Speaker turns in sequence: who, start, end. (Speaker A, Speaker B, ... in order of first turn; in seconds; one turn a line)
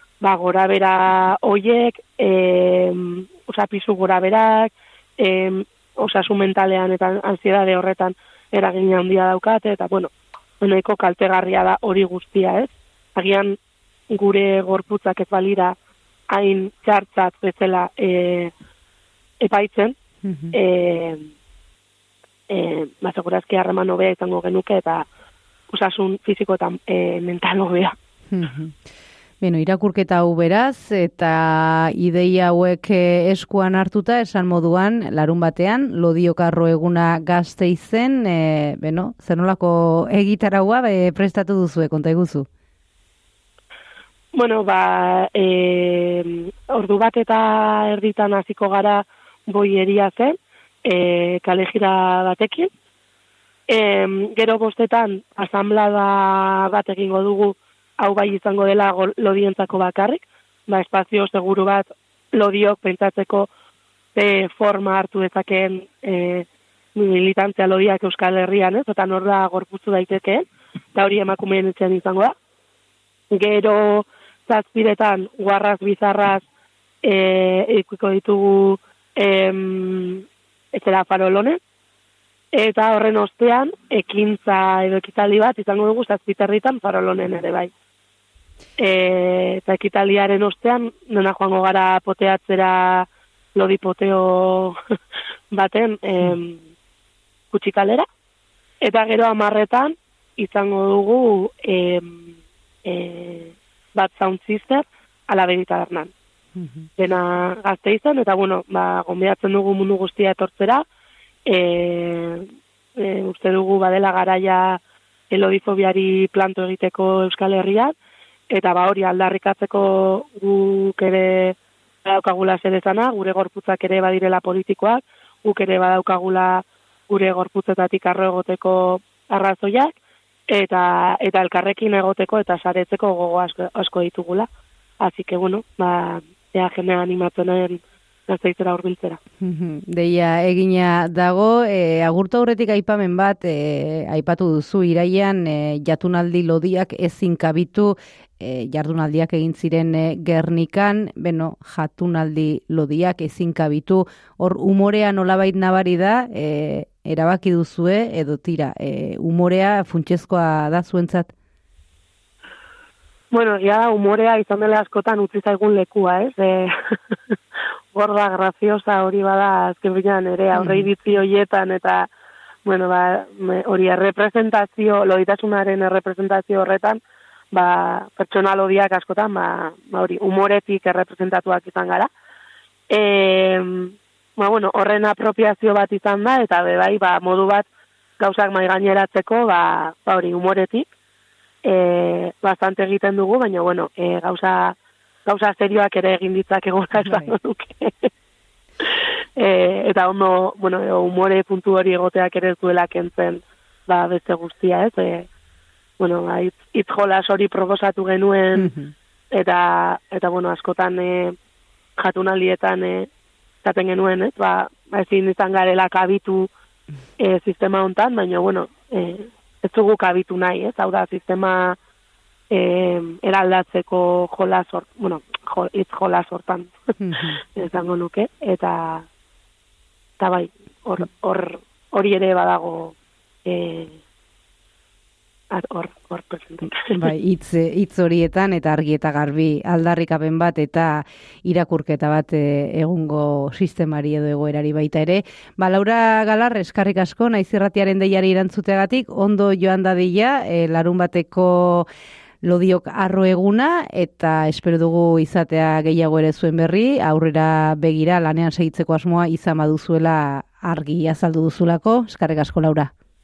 Speaker A: 0.2-13.6
Speaker A: 14.1-15.8
Speaker A: 16.3-18.5
Speaker A: 19.4-20.0
Speaker B: 20.2-20.5
Speaker A: 20.5-21.3
Speaker A: 22.5-25.1
Speaker A: 25.7-28.0
Speaker B: 28.3-28.8
Speaker B: 29.4-42.5
Speaker A: 44.3-52.7
Speaker A: 53.7-63.5
Speaker A: 64.2-72.3
Speaker A: 73.3-76.5
Speaker A: 77.0-81.6
Speaker A: 82.5-87.7
Speaker A: 88.8-94.8
Speaker A: 95.5-96.6
Speaker A: 97.5-98.0
Speaker A: 98.8-106.1
Speaker B: 106.6-106.9
Speaker A: 107.0-110.8
Speaker A: 111.5-118.0
Speaker A: 118.5-130.0
Speaker A: 130.5-134.5
Speaker A: 135.0-139.2
Speaker B: 139.4-161.3
Speaker A: 163.3-166.7
Speaker A: 167.9-172.1
Speaker B: 170.5-170.9
Speaker A: 172.7-177.0
Speaker A: 177.5-182.1
Speaker A: 182.9-187.7
Speaker A: 188.2-190.9
Speaker A: 191.6-198.1
Speaker B: 197.0-197.3
Speaker A: 198.8-205.3
Speaker A: 206.0-208.7
Speaker B: 208.6-208.9
Speaker A: 209.3-211.4
Speaker A: 212.0-213.1
Speaker A: 213.6-216.5
Speaker A: 217.2-221.8
Speaker A: 222.5-226.7
Speaker B: 227.0-227.4
Speaker A: 227.4-229.1
Speaker A: 230.2-234.0
Speaker A: 235.5-237.0
Speaker B: 236.9-251.9
Speaker B: 252.4-262.9